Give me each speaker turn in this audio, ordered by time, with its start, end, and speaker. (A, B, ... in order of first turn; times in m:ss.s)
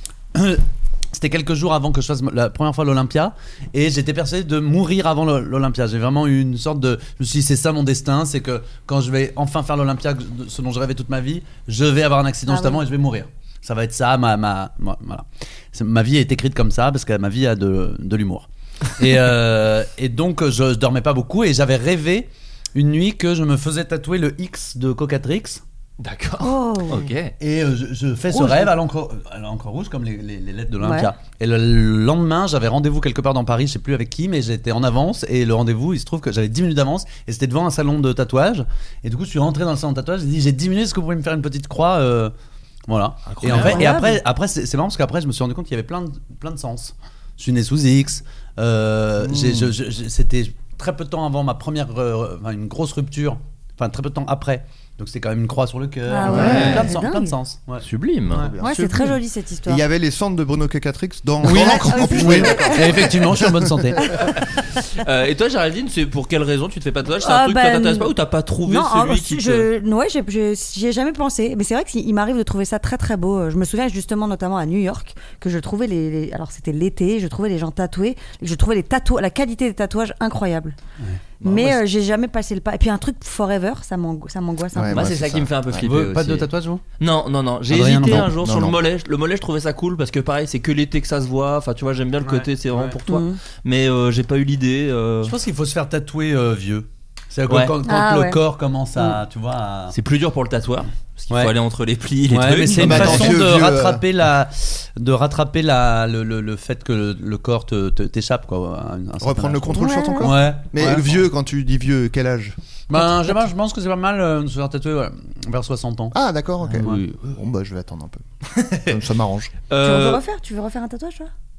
0:00.3-0:25.6 A
0:12.5-0:12.8 B
0:26.0-0:27.3 C
0:26.4-0:27.1 B
0:27.4-0:42.3 A
0:28.3-0:28.6 B
0:30.8-0:31.1 B
0:42.9-0:58.6 A
0:43.3-0:44.0 C
0:43.5-0:44.2 B
0:49.2-0:49.7 D
0:56.1-0:57.3 B
0:56.2-0:56.8 D
0:56.2-0:56.9 C
0:57.8-0:58.5 C
0:58.4-0:59.0 D
0:58.6-0:59.8 B
0:59.6-1:03.9 D
1:01.4-1:04.1 A
1:01.4-1:03.0 B
1:04.1-1:09.7 C
1:07.2-1:08.1 B
1:08.6-1:20.8 B
1:21.4-1:21.8 C
1:21.4-1:25.0 B
1:24.7-1:25.6 D
1:24.9-1:35.4 C
1:25.8-1:26.8 A
1:27.7-1:28.3 A
1:28.0-1:28.8 D
1:32.2-1:33.0 A
1:33.1-1:33.4 B
1:35.2-1:39.9 A
1:37.5-1:37.7 C
1:37.8-1:38.4 B
1:39.9-1:43.4 C
1:42.3-1:51.2 A
1:42.7-1:44.0 D
1:49.2-1:52.5 D
1:49.7-1:50.3 B
1:52.9-1:56.2 A
1:56.1-1:58.2 D
1:56.6-1:57.2 C
1:58.6-1:59.0 C
1:58.8-1:59.5 D
1:59.7-2:00.2 C
1:59.8-2:01.3 B